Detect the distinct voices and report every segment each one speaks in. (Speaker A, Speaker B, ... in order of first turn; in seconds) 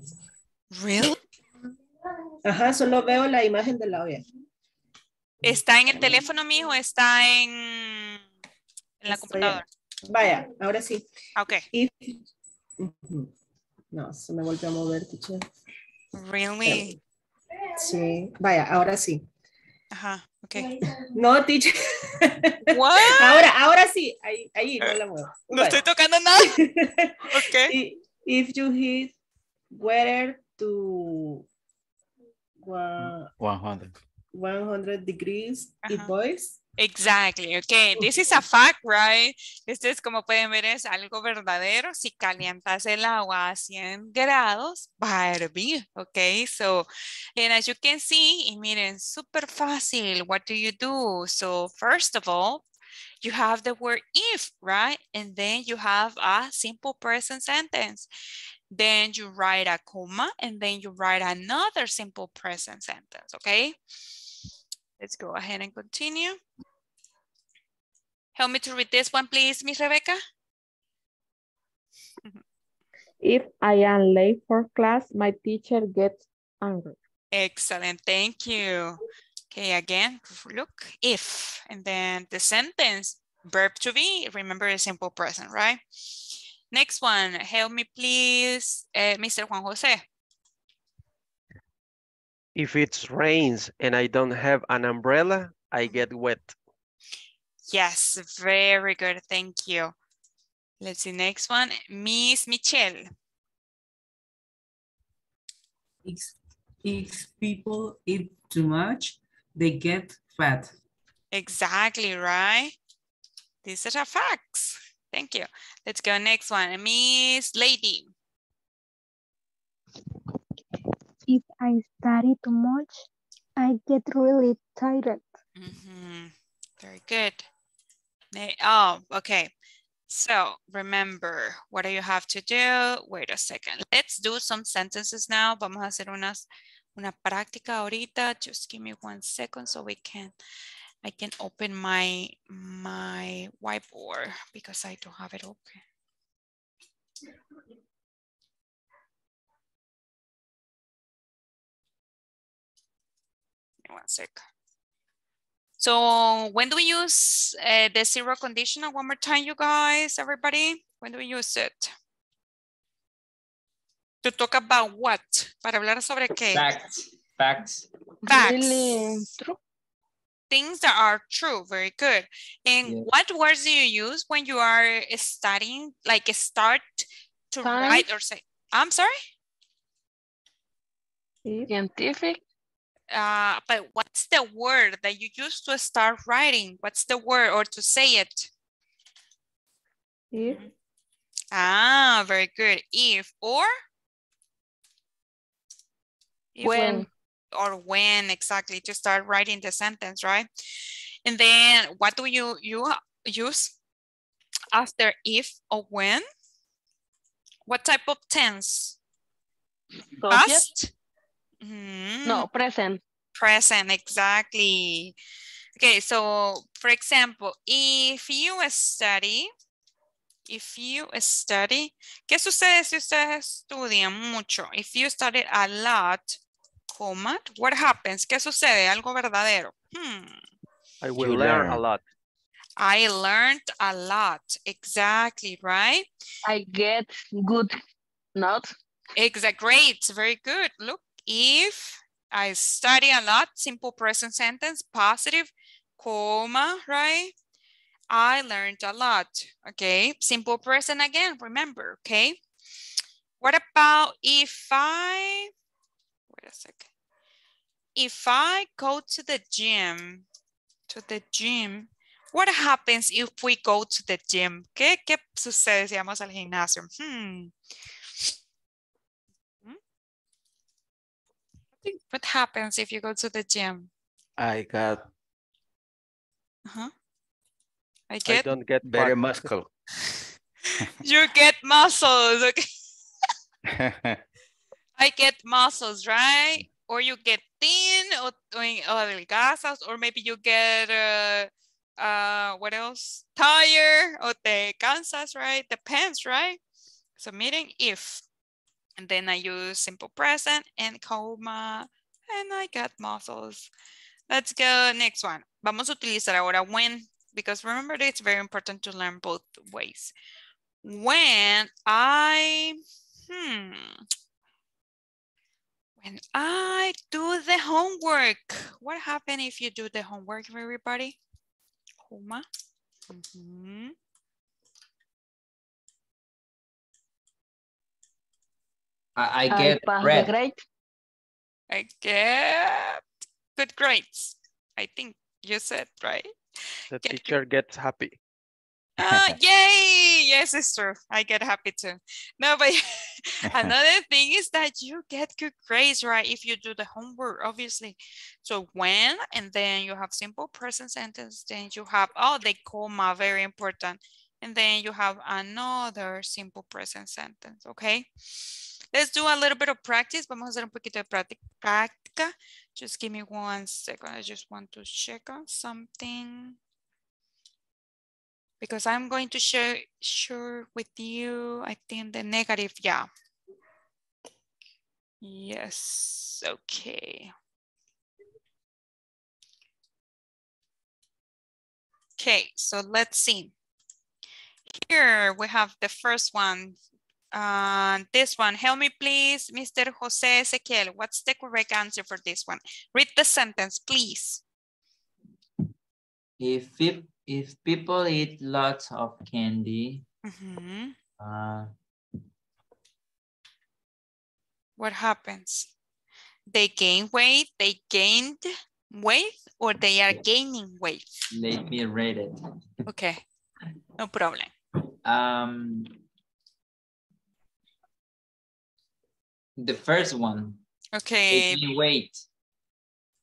Speaker A: 0.7-1.2, 5.4-8.2, 9.0-9.6, 11.3-11.7, 16.1-16.9, 19.9-20.7, 22.7-23.5, 25.5-26.6, 27.3-27.8, 35.8-36.1, 36.8-52.6, 53.2-58.1, 58.7-63.8, 65.0-66.4, 68.3-70.2, 77.3-79.0, 79.5-90.0, 97.7-99.9, 100.8-103.0, 111.3-112.8, 113.6-118.1, 125.6-127.5, 128.3-129.5, 130.1-140.3, 141.0-145.8, 153.8-154.4, 155.8-161.9, 164.2-166.7, 168.3-169.2, 170.5-179.1, 183.1-188.5, 191.5-193.7, 196.5-200.5, 201.2-203.7, 204.7-206.2, 207.7-209.0, 210.3-210.9, 211.6-212.5, 213.3-215.1, 215.8-219.5, 220.5-226.4, 226.9-230.4, 232.8-236.1, 239.2-247.3, 248.1-252.4, 253.4-255.5, 256.3-256.9, 257.9-260.2, 260.9-267.5, 271.8-273.9, 278.1-278.5, 281.0-282.7, 285.0-296.6, 297.2-298.2, 299.0-303.7, 304.3-310.1, 310.8-314.0, 316.0-321.2, 322.0-322.4, 323.1-323.9, 331.7-333.0, 333.6-336.3, 337.0-337.4, 339.0-358.1, 358.9-366.6, 368.6-373.1, 375.2-377.3, 382.2-383.5, 384.7-386.8, 387.3-394.4, 400.2-400.9, 404.8-405.7, 406.5-411.2, 412.9-413.2, 414.0-414.5, 420.9-421.6
Speaker B: 2.4-4.2, 9.1-11.1, 11.7-12.2, 12.8-13.3, 13.9-15.5, 16.6-16.9, 17.8-19.2, 21.0-29.1, 29.7-31.4, 32.6-33.3, 34.3-36.6
Speaker C: 33.0-34.0, 231.2-231.8, 274.4-275.0, 278.8-279.7, 283.7-284.2, 339.0-339.3
Speaker D: 73.2-77.0, 181.4-181.7, 190.3-190.6
Speaker E: 92.5-96.5, 231.0-232.0, 278.2-279.5, 336.9-338.2
Speaker F: 106.0-110.7
Speaker G: 121.3-125.4
Speaker H: 166.5-167.9, 329.1-330.3, 396.4-400.0, 401.2-401.7, 411.3-412.4, 415.0-416.0, 419.6-420.6, 421.3-422.2
Speaker I: 168.2-169.6, 177.6-178.1, 181.7-182.4, 196.6-197.1, 210.1-210.7, 212.2-213.0, 236.4-237.7, 238.3-238.7, 329.5-330.6